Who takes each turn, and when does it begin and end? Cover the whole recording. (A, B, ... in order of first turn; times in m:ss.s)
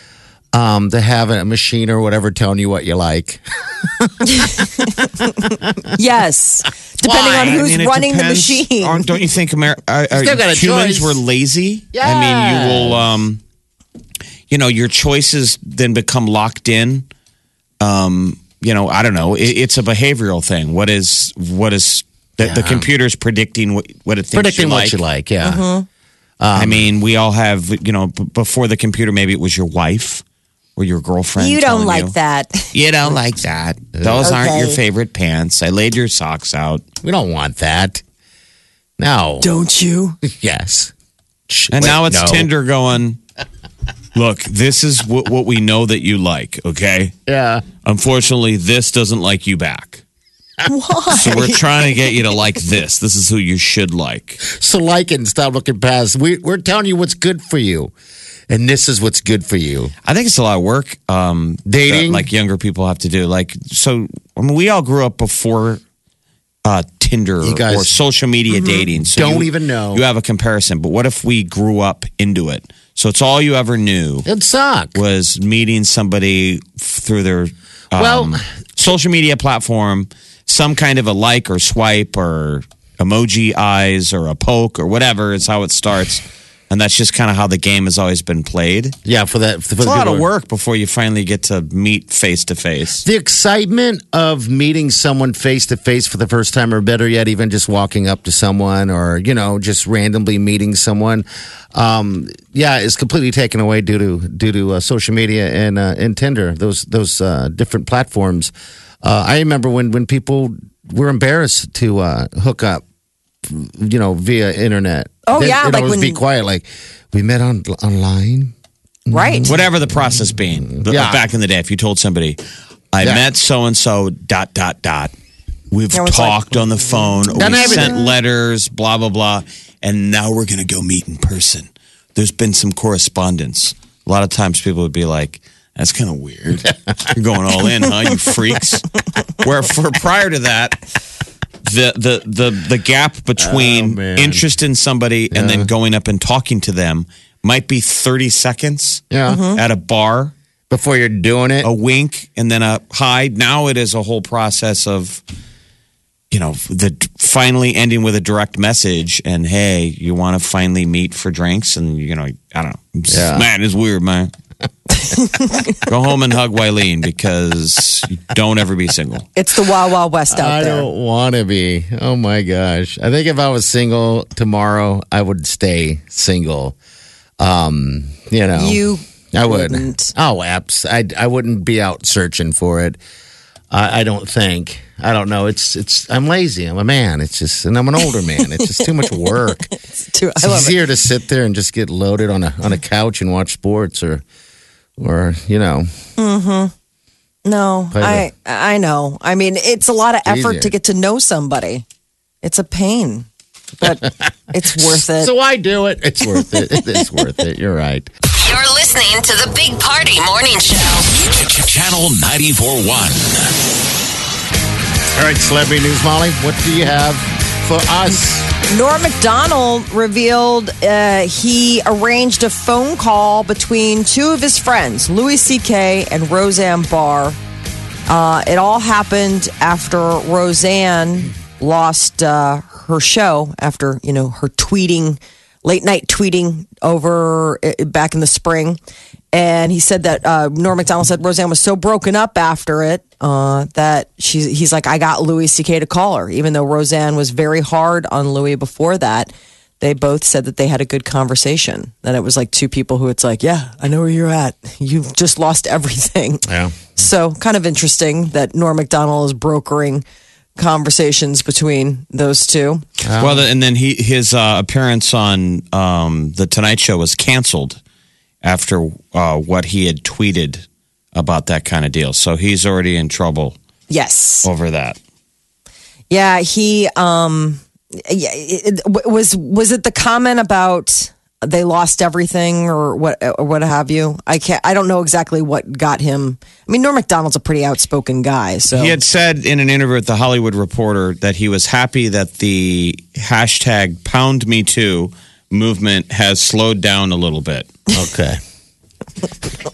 0:00.5-0:04.6 A
0:04.2-0:09.0 B
0:07.0-0:13.4 C
0:10.1-0:11.2 A
0:11.9-0:13.1 A
0:14.5-0:17.1 C
0:17.8-0:25.0 C
0:22.4-0:22.9 A
0:24.3-0:25.6 A
0:25.4-0:25.8 B
0:26.4-0:26.8 A
0:26.5-0:30.2 C
0:30.8-0:32.1 C
0:31.4-0:32.7 B
0:32.7-0:36.8 C
0:34.0-0:34.3 A
0:34.2-0:34.8 B
0:37.0-0:38.0 A
0:39.0-0:39.5 A
0:39.4-0:40.2 B
0:40.2-0:40.9 A
0:41.5-0:42.5 A
0:41.7-0:43.2 C
0:44.1-0:47.1 C
0:47.3-0:47.6 A
0:47.8-0:50.0 C
0:50.7-0:51.6 B
0:51.1-0:54.4 C
0:54.4-0:57.9 A
0:58.5-0:59.9 A
1:00.0-1:05.8 C
1:01.6-1:02.3 A
1:06.6-1:14.3 C
1:07.4-1:07.9 A
1:08.5-1:08.8 B
1:09.1-1:10.0 A
1:14.2-1:15.0 A
1:14.9-1:29.0 C
1:17.9-1:18.4 A
1:29.0-1:30.2 A
1:29.8-1:33.0 C
1:33.0-1:52.8 A
1:53.4-1:58.5 A
1:55.2-1:56.2 B
1:59.1-1:59.6 A
1:59.1-1:59.5 B
1:59.5-2:02.4 C
2:00.7-2:01.2 A
2:02.9-2:05.1 C
2:05.7-2:20.8 C
2:05.9-2:08.0 B
2:07.3-2:08.0 A
2:21.6-2:30.3 C
2:23.4-2:24.4 A
2:25.3-2:25.7 A
2:29.1-2:29.4 A
2:29.3-2:29.6 B
2:30.7-2:31.7 A
2:31.6-2:35.2 C
2:36.3-2:44.3 C
2:43.1-2:43.4 A
2:45.1-2:45.5 B
2:45.8-2:49.3 C
2:49.4-2:50.9 B
2:50.3-2:56.8 A
2:57.4-2:58.8 A
2:58.6-3:00.1 B
2:59.3-3:03.0 A
3:03.7-3:09.7 A
3:08.6-3:10.8 B
3:10.4-3:14.2 A
3:15.0-3:15.9 A
3:16.2-3:16.7 B
3:17.4-3:21.8 B
3:17.9-3:18.3 A
3:20.2-3:20.7 A
3:22.4-3:23.3 B
3:23.8-3:25.3 B
3:23.8-3:28.1 A
3:26.3-3:26.9 B
3:28.3-3:31.2 D
3:31.2-3:33.5 E
3:35.2-3:38.5 A
3:38.7-3:47.4 B
3:48.1-3:58.8 B
3:59.3-4:20.0 B
4:16.5-4:17.0 A
4:20.6-4:22.8 B
4:23.0-4:23.4 A
4:23.2-4:27.8 C
4:28.4-4:33.6 C
4:33.9-4:34.5 B
4:34.4-4:35.0 C
4:36.1-4:49.0 B
4:48.7-4:57.7 C
4:57.9-4:58.4 A